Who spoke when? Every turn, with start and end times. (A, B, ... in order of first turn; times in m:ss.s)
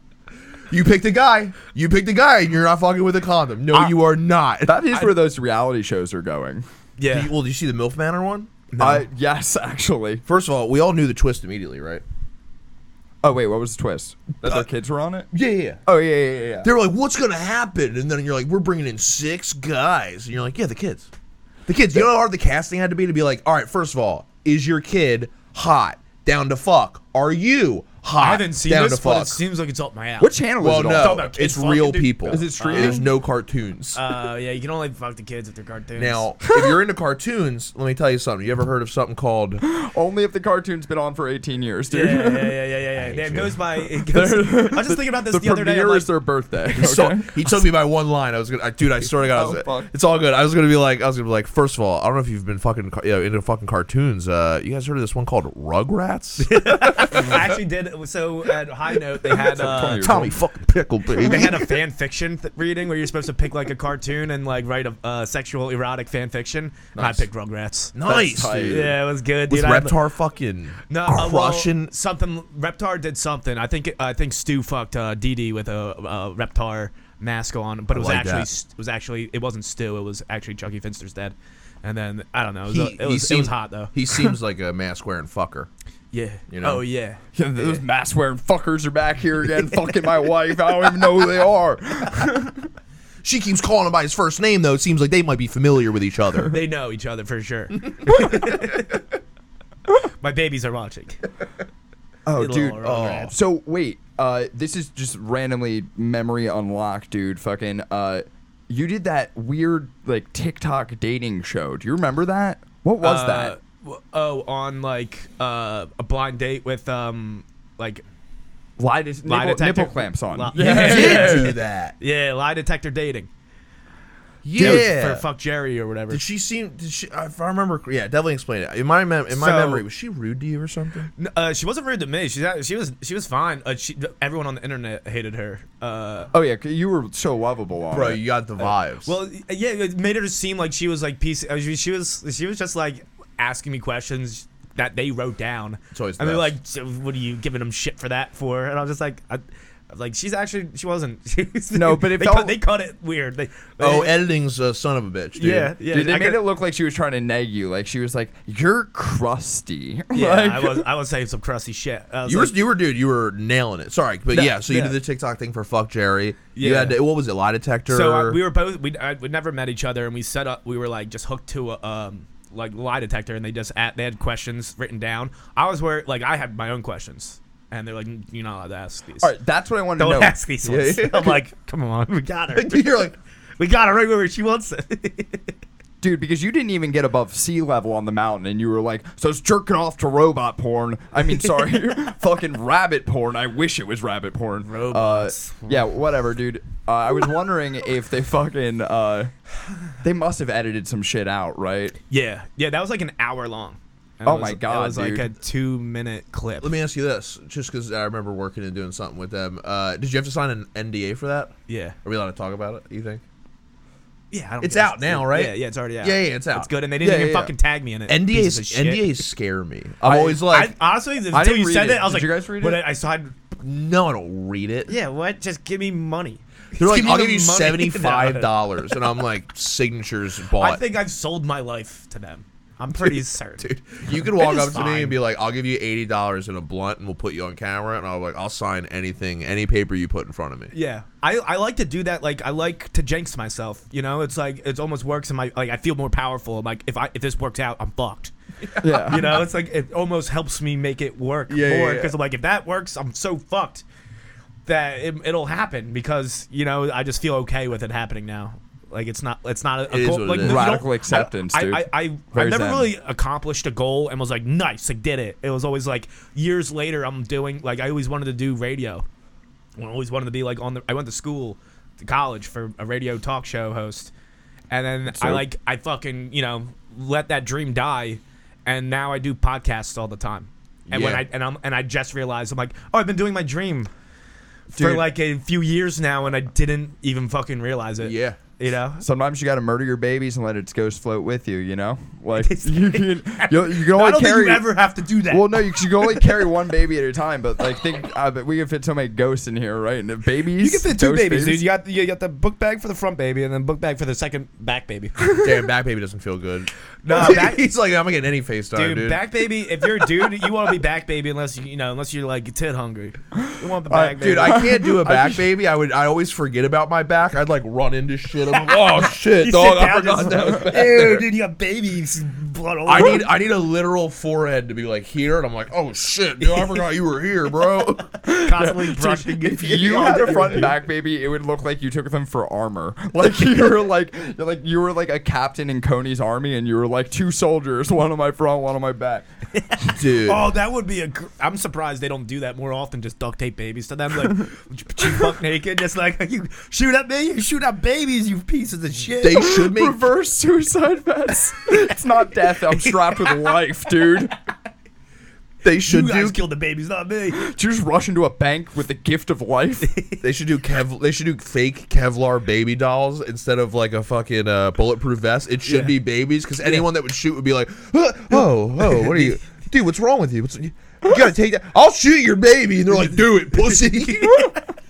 0:00.7-0:04.8 A
0:04.6-0:06.6 B
0:07.0-0:07.3 C
0:07.1-0:08.5 A
0:08.7-0:09.0 C
0:08.8-0:10.2 B
0:10.2-0:12.0 A
0:13.2-0:15.3 B
0:15.3-0:15.8 A
0:15.8-0:16.7 B
0:16.6-0:21.1 A
0:21.7-0:29.4 A
0:28.2-0:30.3 C
0:30.2-0:31.2 B
0:30.6-0:34.0 A
0:31.0-0:33.0 C
0:32.3-0:33.0 B
0:33.9-0:36.2 C
0:36.0-0:39.6 A
0:39.6-0:42.6 B
0:41.9-0:46.1 C
0:43.0-0:43.5 A
0:44.0-0:47.4 B
0:46.7-0:57.4 A
0:49.2-0:49.9 B
0:56.4-1:00.3 C
0:59.3-1:00.3 B
1:00.0-1:01.7 A
1:01.1-1:07.9 C
1:07.0-1:07.2 A
1:07.9-1:09.0 A
1:08.0-1:08.9 B
1:08.7-1:10.0 C
1:09.5-1:11.9 A
1:10.9-1:24.3 C
1:17.9-1:18.5 A
1:22.7-1:25.7 A
1:26.1-1:27.2 C
1:26.5-1:26.8 A
1:27.3-1:32.7 B
1:33.2-1:36.6 A
1:36.5-1:39.0 C
1:38.0-1:38.6 A
1:40.0-1:41.2 C
1:42.2-1:53.5 B
1:42.4-1:43.3 C
1:42.8-1:43.3 A
1:53.0-1:58.0 C
1:58.8-2:01.6 B
1:59.2-2:03.3 C
2:00.5-2:01.9 A
2:04.4-2:05.2 A
2:04.6-2:04.8 B
2:04.6-2:06.2 C
2:06.1-2:11.1 A
2:09.3-2:09.8 C
2:11.2-2:16.3 C
2:16.3-2:18.2 B
2:17.9-2:19.1 A
2:19.0-2:34.1 C
2:25.9-2:26.5 A
2:31.7-2:32.6 B
2:33.8-2:35.7 A
2:35.4-2:36.5 C
2:35.9-2:40.9 B
2:40.1-2:42.5 C
2:42.2-2:48.4 A
2:44.3-2:45.0 C
2:46.5-2:47.0 C
2:47.9-2:59.3 C
2:59.2-3:00.4 B
3:00.0-3:03.0 C
3:00.6-3:01.4 A
3:02.5-3:03.1 A
3:03.6-3:05.6 C
3:06.0-3:19.3 B
3:14.6-3:15.8 C
3:20.0-3:22.0 B
3:22.1-3:26.7 C
3:24.2-3:25.3 B
3:26.6-3:33.2 A
3:31.7-3:32.0 C
3:34.3-3:39.1 C
3:34.6-3:36.7 A
3:37.0-3:37.5 B
3:38.1-3:40.7 A
3:40.0-3:40.4 B
3:40.5-3:43.3 C
3:41.3-3:42.8 B
3:43.6-3:44.9 A
3:44.9-3:48.5 C
3:46.8-3:50.8 A
3:50.6-3:55.2 C
3:52.9-4:00.7 A
4:00.7-4:13.8 C
4:08.8-4:09.4 A
4:08.8-4:09.4 B
4:11.5-4:12.1 A
4:14.6-4:29.0 C
4:19.9-4:20.7 A
4:20.4-4:22.9 B
4:29.8-4:34.1 C
4:34.7-4:43.9 C
4:35.1-4:35.4 B
4:40.9-4:41.2 A
4:44.7-4:45.1 B
4:44.7-4:49.0 C
4:48.0-4:48.4 A
4:49.0-4:54.7 B
4:52.4-4:56.2 C
4:55.3-5:01.7 B
5:00.6-5:05.3 C
5:05.3-5:09.2 A
5:07.0-5:07.7 C
5:08.7-5:14.6 C
5:13.9-5:15.4 B
5:14.2-5:21.2 A
5:18.7-5:23.3 C
5:22.8-5:28.1 A
5:26.4-5:26.8 C
5:28.2-5:39.2 B
5:28.3-5:30.7 C
5:29.0-5:30.8 A
5:39.6-5:49.6 C
5:39.9-5:40.5 A
5:49.2-5:50.0 A
5:49.4-5:54.3 B
5:52.6-5:53.5 C
5:55.6-5:56.4 A
5:55.8-5:57.4 C
5:57.3-5:59.9 B
5:59.8-6:00.2 C
6:00.2-6:14.5 A
6:05.6-6:05.9 C
6:08.8-6:09.4 C
6:13.7-6:14.5 C